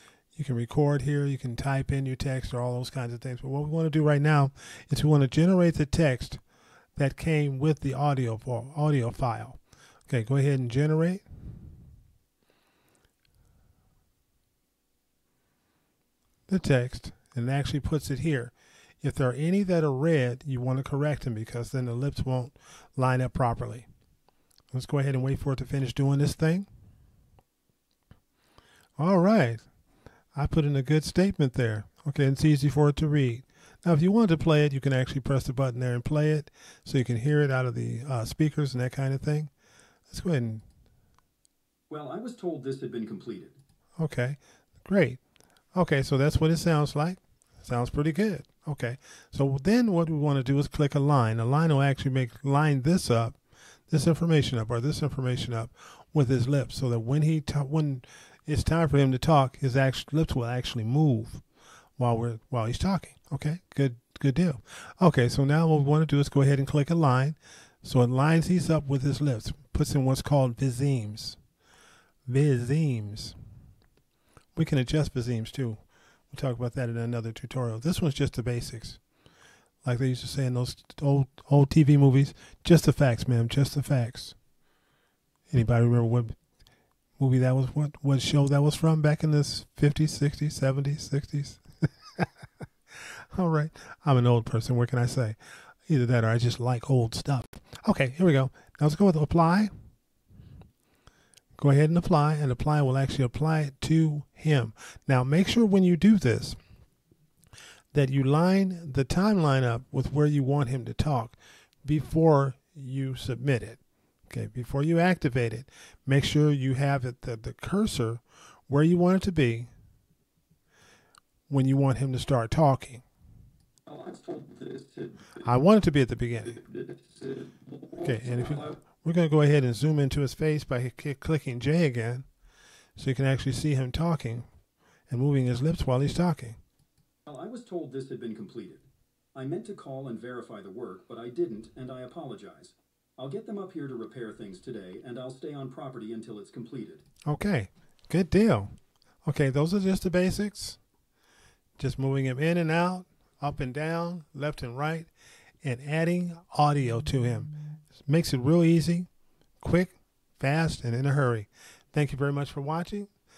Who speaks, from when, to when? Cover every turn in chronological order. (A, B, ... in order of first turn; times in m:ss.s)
0:00.4-0:06.4 A
0:07.0-0:11.2 A
0:16.5-0:23.9 A
0:24.7-0:26.7 A
0:29.0-0:29.7 A
0:30.4-0:39.5 A
0:40.1-0:40.6 A
0:41.9-0:43.6 B
0:44.0-0:45.2 A
0:45.7-0:53.4 A
0:53.9-1:01.4 A
1:02.0-1:11.4 A
1:12.3-1:13.4 A
1:14.6-1:15.8 A
1:16.3-1:19.0 A
1:19.8-1:24.4 A
1:25.5-1:26.4 A
1:27.2-1:32.3 A
1:33.0-1:35.4 A
1:35.9-1:39.7 A
1:41.6-1:46.6 A
1:47.9-1:59.7 A
2:01.5-2:03.0 A
2:03.9-2:05.4 B
2:05.4-2:06.6 A
2:06.6-2:08.8 B
2:08.0-2:12.3 A
2:13.0-2:14.5 A
2:15.1-2:16.6 A
2:17.3-2:27.0 B
2:27.3-2:28.7 A
2:29.2-2:30.8 A
2:31.8-2:35.1 A
2:35.6-2:39.1 A
2:39.6-2:43.1 A